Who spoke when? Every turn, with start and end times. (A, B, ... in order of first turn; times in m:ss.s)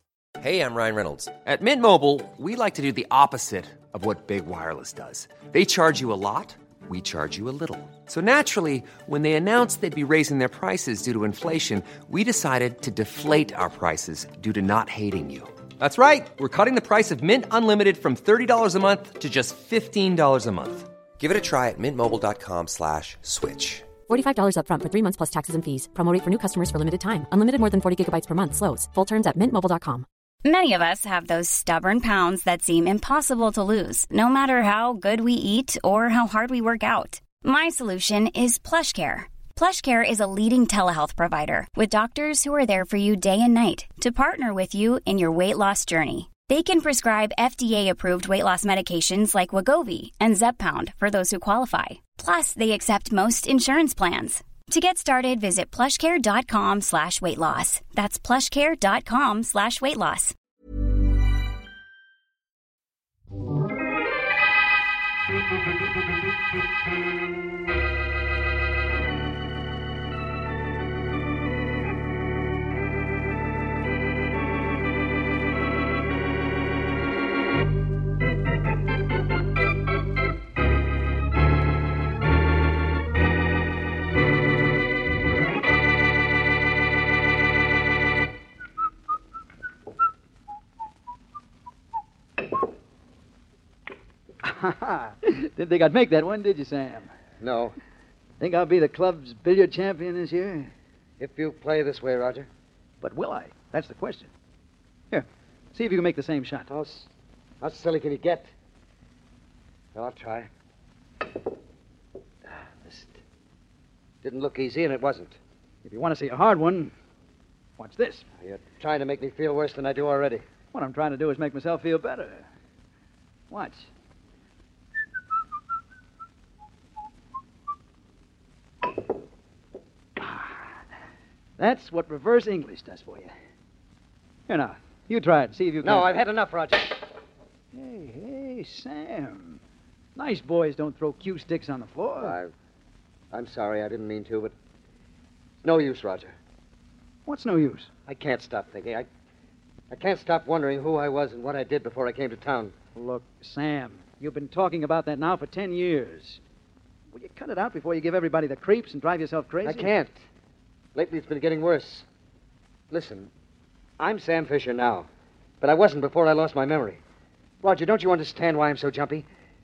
0:00.4-0:23.9 A
0:24.1-0:30.1 B
0:30.4-1:00.4 C
1:34.4-1:37.1 D
1:37.4-1:37.8 E
1:38.4-1:40.7 D
1:41.2-1:42.5 E
1:43.0-1:44.3 D
1:45.1-1:46.7 D
1:46.7-1:47.1 E
1:47.6-1:48.5 E
1:49.9-1:50.5 E
1:52.5-1:53.2 E
1:54.2-1:55.4 E
1:55.8-1:56.9 D
1:57.8-1:58.3 D
1:58.4-2:00.4 E
2:00.7-2:02.5 D
2:03.5-2:03.9 D
2:10.2-2:10.8 D
2:11.6-2:13.3 D
2:14.5-2:16.1 D
2:15.8-2:17.0 E
2:17.7-2:19.6 D
2:20.2-2:22.4 D
2:22.2-2:22.5 E
2:23.3-2:24.6 E
2:25.6-2:26.4 E
2:27.3-2:27.9 D
2:28.1-2:29.1 E
2:29.9-2:32.7 E
2:33.0-2:36.4 D
2:37.1-2:39.9 D
2:39.6-2:40.3 E
2:41.0-2:42.1 E
2:42.9-2:43.3 E
2:44.0-2:45.1 E
2:45.6-2:47.0 E
2:47.6-2:49.3 E